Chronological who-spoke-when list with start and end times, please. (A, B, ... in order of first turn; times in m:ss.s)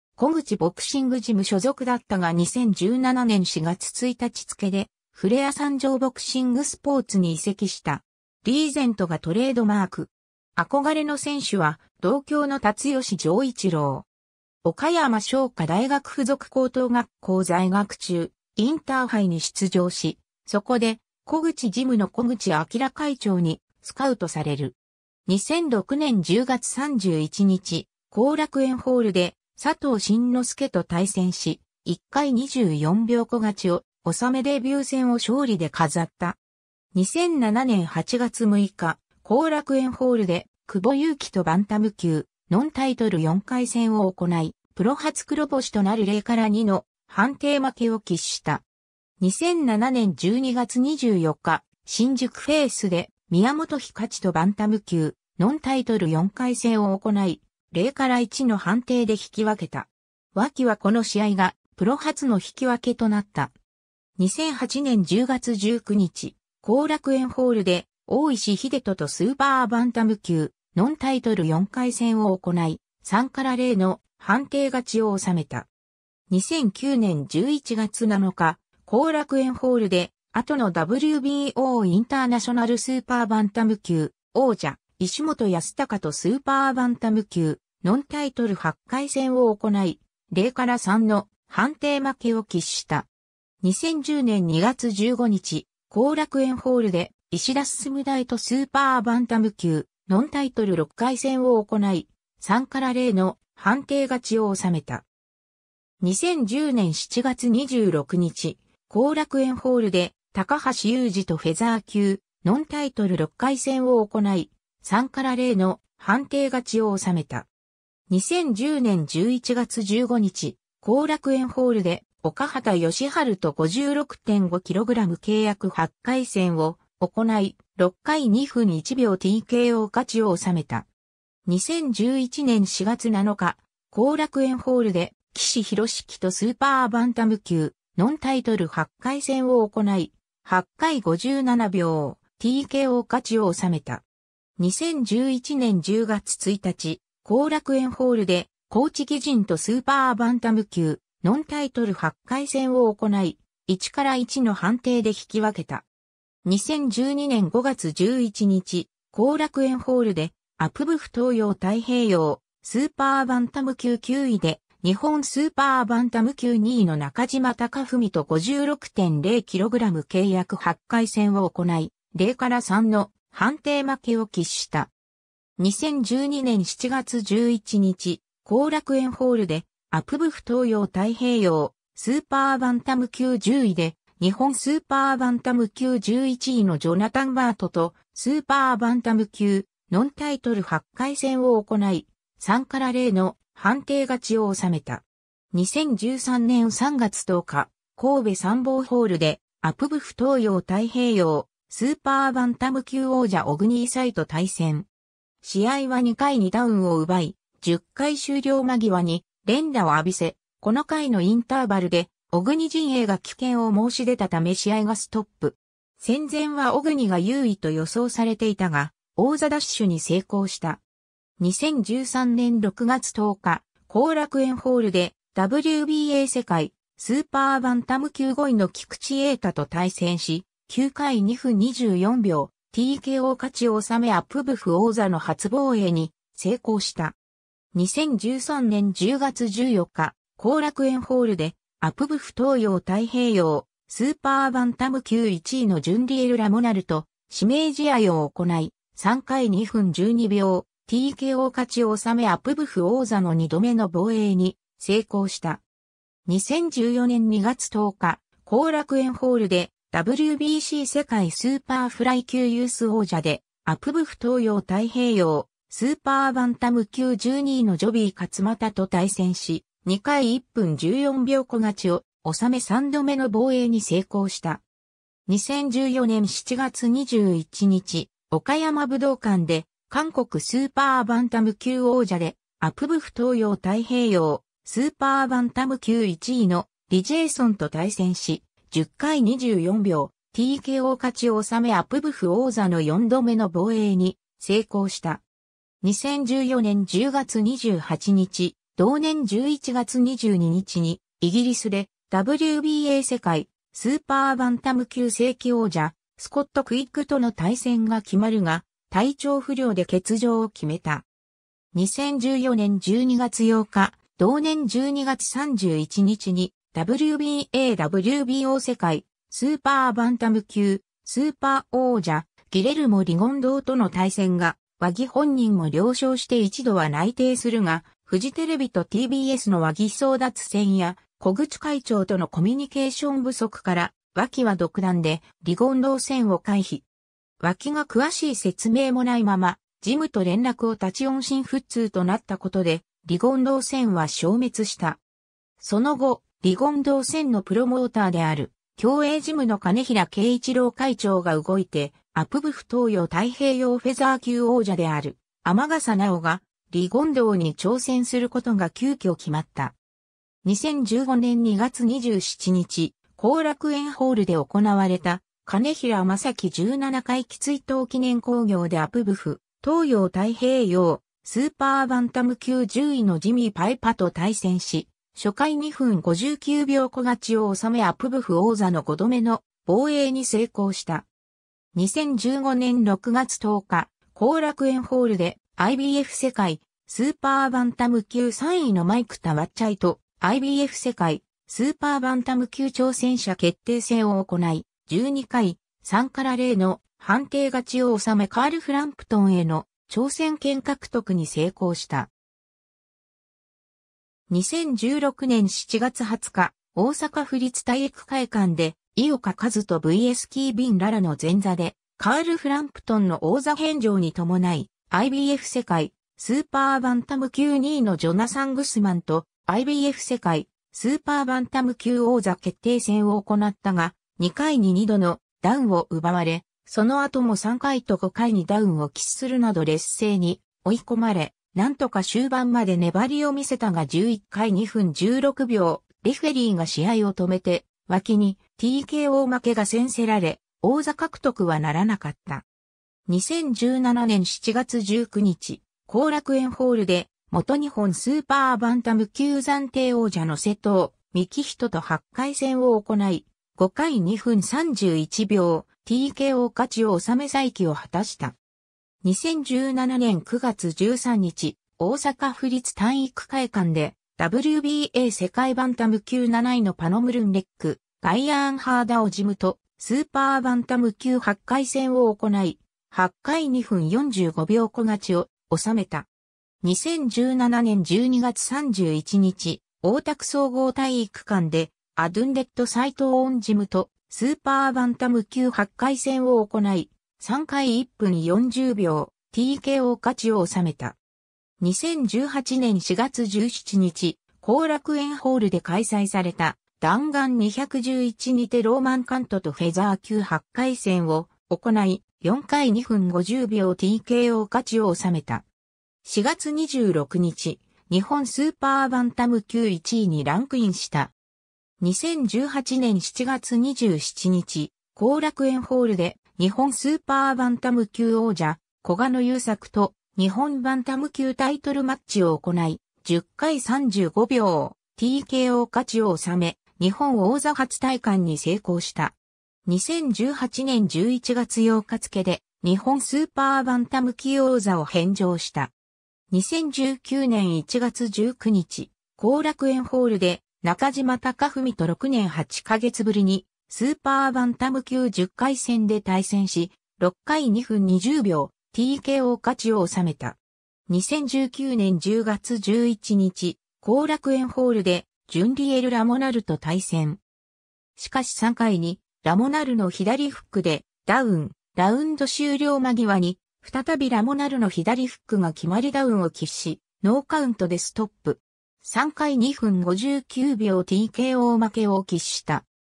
0:00.2-0:14.1 A
0:14.6-0:24.8 A
0:25.3-0:36.4 A
0:36.9-0:48.6 A
0:49.2-1:03.5 A
1:04.2-1:15.7 A
1:16.3-1:33.1 A
1:33.6-1:45.0 A
1:46.0-1:57.5 A
1:58.1-2:10.9 A
2:11.5-2:24.0 A
2:24.6-2:35.8 A
2:36.4-2:54.9 A
2:55.6-3:24.9 A
3:25.4-3:40.8 A
3:41.4-3:57.2 A
3:57.7-4:15.6 A
4:16.3-4:34.6 A
4:35.3-4:55.2 A
4:55.8-5:11.0 A
5:11.7-5:36.8 A
5:37.4-5:45.0 A
5:45.6-5:59.8 A
6:00.4-6:21.1 A
6:21.7-6:42.1 A
6:44.3-7:22.4 A
7:23.1-7:38.4 A
7:39.0-7:56.1 A
7:56.6-8:11.0 A
8:11.6-8:25.4 A
8:26.0-8:31.1 A
8:31.8-8:55.7 A
8:56.3-9:10.4 A
9:10.9-9:17.2 A
9:18.0-9:32.6 A